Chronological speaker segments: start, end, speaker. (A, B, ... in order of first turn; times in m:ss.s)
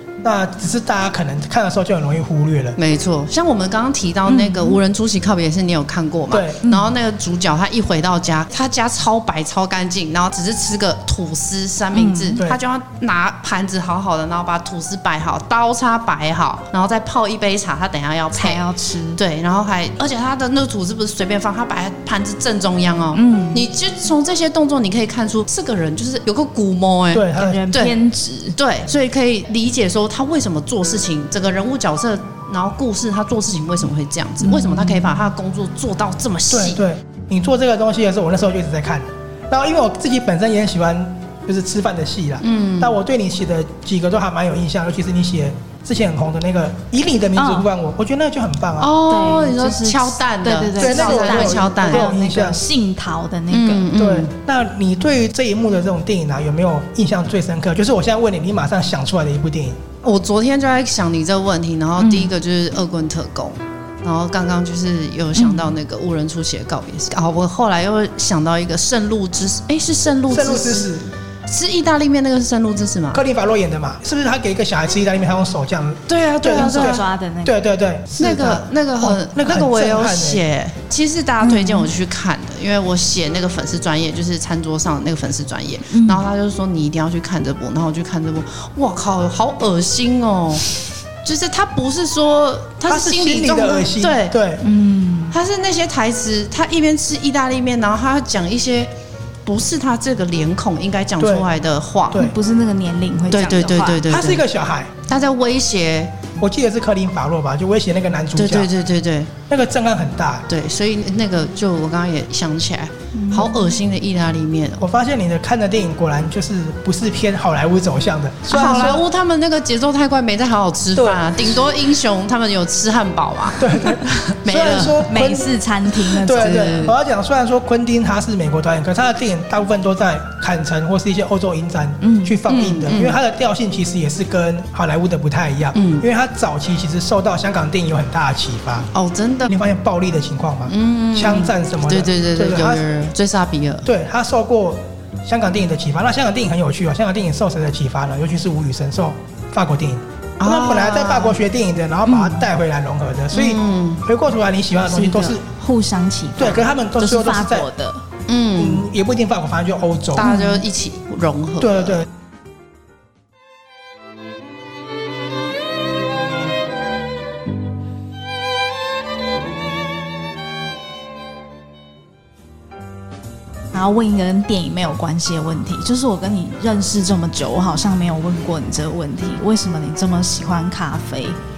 0:00.2-0:02.8 A
0:02.8-0:18.6 B
0:04.3-0:04.8 C
0:06.3-0:06.6 A
0:11.9-0:12.4 C
0:18.3-0:19.2 C
0:19.2-0:28.0 B
0:23.1-0:23.7 C
0:27.1-0:27.6 A
0:27.3-0:28.6 C
0:28.6-0:36.8 B
0:34.4-0:35.1 C
0:36.5-0:48.9 A
0:42.4-0:43.0 B
0:47.4-0:47.7 C
0:48.8-0:52.1 B
0:49.1-0:53.9 C
0:50.8-0:52.6 A
0:53.5-0:54.3 B
0:53.9-0:59.8 A
1:00.0-1:10.9 B
1:02.0-1:02.3 C
1:05.4-1:05.7 C
1:10.3-1:11.1 A
1:11.5-1:13.2 B
1:13.1-1:20.4 A
1:16.1-1:17.0 B
1:16.5-1:17.6 C
1:18.2-1:30.7 B
1:21.4-1:21.9 C
1:25.9-1:26.3 C
1:31.2-1:34.4 B
1:32.8-1:34.6 A
1:34.6-1:35.3 C
1:35.3-1:38.9 B
1:39.4-1:42.3 B
1:41.2-1:41.5 A
1:42.1-1:44.1 C
1:43.3-1:44.4 B
1:44.1-1:44.9 A
1:45.1-1:46.2 B
1:46.4-1:48.7 A
1:48.4-1:49.4 B
1:49.5-1:50.5 A
1:50.5-1:54.8 B
1:53.1-1:53.7 C
1:54.8-1:59.0 A
1:58.5-2:05.1 B
2:00.9-2:01.6 A
2:03.6-2:05.5 A
2:05.1-2:06.8 C
2:06.2-2:18.9 A
2:06.3-2:06.9 B
2:12.0-2:12.4 C
2:12.5-2:13.2 B
2:15.7-2:16.0 B
2:18.9-2:19.6 B
2:19.5-2:22.8 A
2:20.7-2:23.8 B
2:23.8-2:35.4 A
2:30.4-2:31.4 B
2:32.1-2:32.5 C
2:33.3-2:34.0 B
2:34.9-2:38.0 C
2:36.4-2:37.7 A
2:38.3-2:38.8 B
2:38.6-2:40.3 A
2:40.1-2:42.0 B
2:40.2-2:40.6 C
2:41.6-2:42.0 A
2:53.7-3:01.4 C